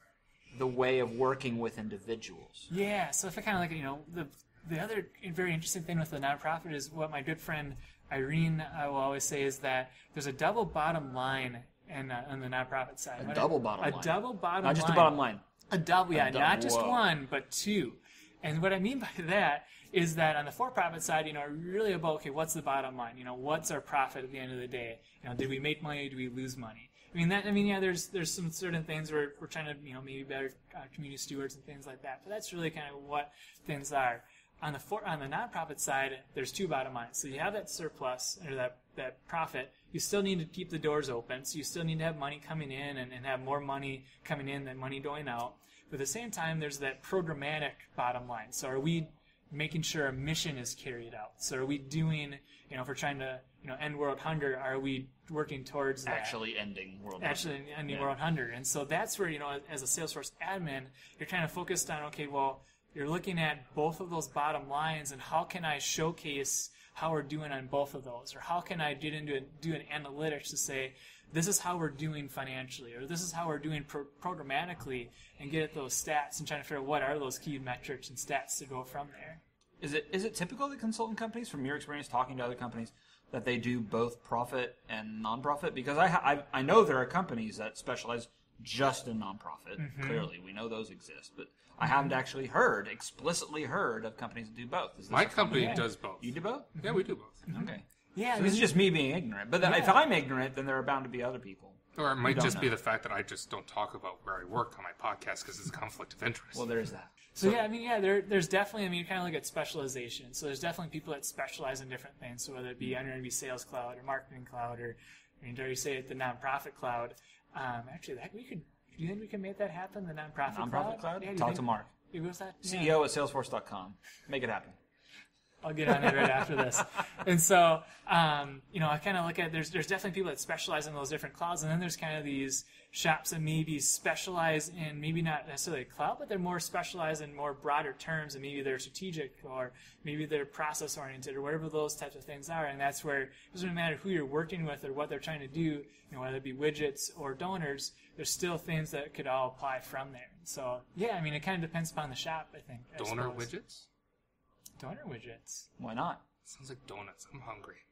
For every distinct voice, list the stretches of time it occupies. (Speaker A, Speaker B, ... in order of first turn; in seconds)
Speaker A: 0.5-2.7, 13.2-15.4, 16.1-17.0, 56.0-58.1, 79.8-96.8, 97.5-102.7, 106.5-107.6, 120.5-121.9, 122.6-124.8, 155.8-156.2
Speaker B: 2.7-15.2, 15.7-56.4, 57.2-79.4, 89.8-90.3, 91.8-92.1, 95.5-95.9, 96.8-98.8, 99.6-100.0, 107.3-123.0, 125.6-153.5, 154.8-155.7
Speaker C: 95.1-97.4, 102.0-106.7, 153.0-153.8, 156.5-157.8